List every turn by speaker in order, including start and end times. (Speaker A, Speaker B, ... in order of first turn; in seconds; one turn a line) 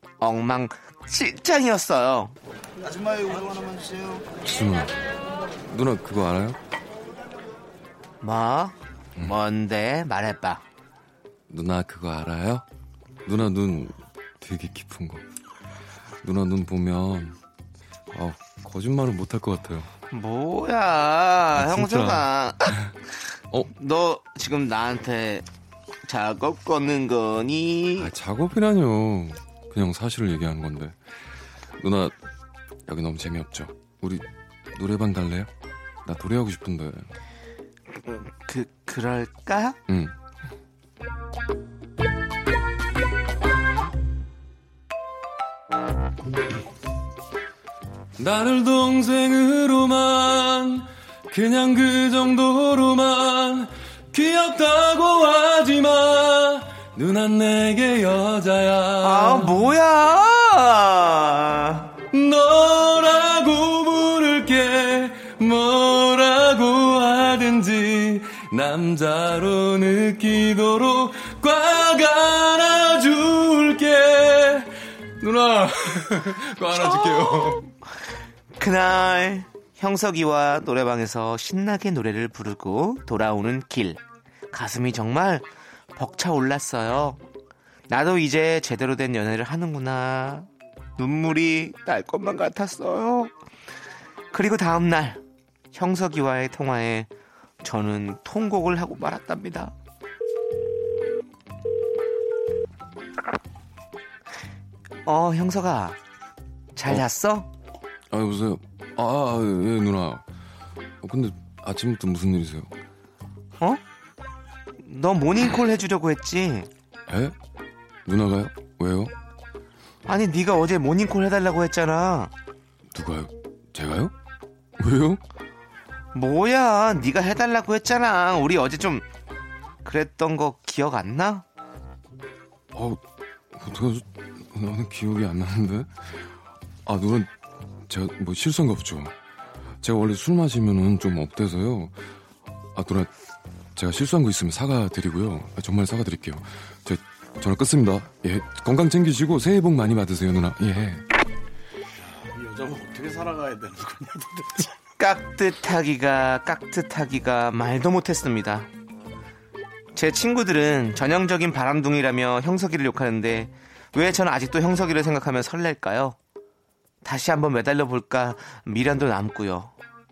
Speaker A: 0.2-2.4
Speaker B: 4.4-4.9
Speaker B: 5.7-6.6
Speaker A: 8.2-10.6
Speaker B: 11.5-12.6
Speaker B: 13.2-15.2
Speaker B: 16.2-17.4
Speaker B: 18.1-19.9
Speaker A: 20.1-22.8
Speaker B: 21.6-22.9
Speaker A: 23.7-25.5
Speaker A: 26.1-28.1
Speaker B: 28.0-31.0
Speaker B: 31.8-32.1
Speaker B: 32.9-35.5
Speaker B: 36.0-37.1
Speaker A: 38.0-39.8
Speaker B: 39.9-40.1
Speaker B: 48.2-59.7
Speaker A: 59.0-61.9
Speaker B: 62.1-77.7
Speaker A: 76.8-77.5
Speaker A: 78.6-84.0
Speaker A: 84.5-87.2
Speaker A: 87.9-93.3
Speaker A: 94.3-95.2
Speaker A: 95.7-97.1
Speaker A: 97.6-99.7
Speaker A: 105.1-106.0
Speaker A: 106.8-107.5
Speaker B: 108.1-110.2
Speaker B: 111.0-112.7
Speaker A: 114.8-116.7
Speaker B: 117.1-117.3
Speaker B: 118.1-119.1
Speaker A: 120.1-122.3
Speaker B: 122.9-124.1
Speaker B: 124.8-125.2
Speaker A: 126.1-129.1
Speaker A: 129.8-131.4
Speaker B: 132.7-133.0
Speaker B: 133.5-135.9
Speaker B: 136.9-137.3
Speaker B: 137.9-139.1
Speaker B: 139.8-141.9
Speaker B: 142.8-143.1
Speaker B: 143.8-151.0
Speaker C: 152.0-154.8
Speaker A: 155.0-158.7
Speaker A: 159.9-166.2
Speaker A: 167.0-169.7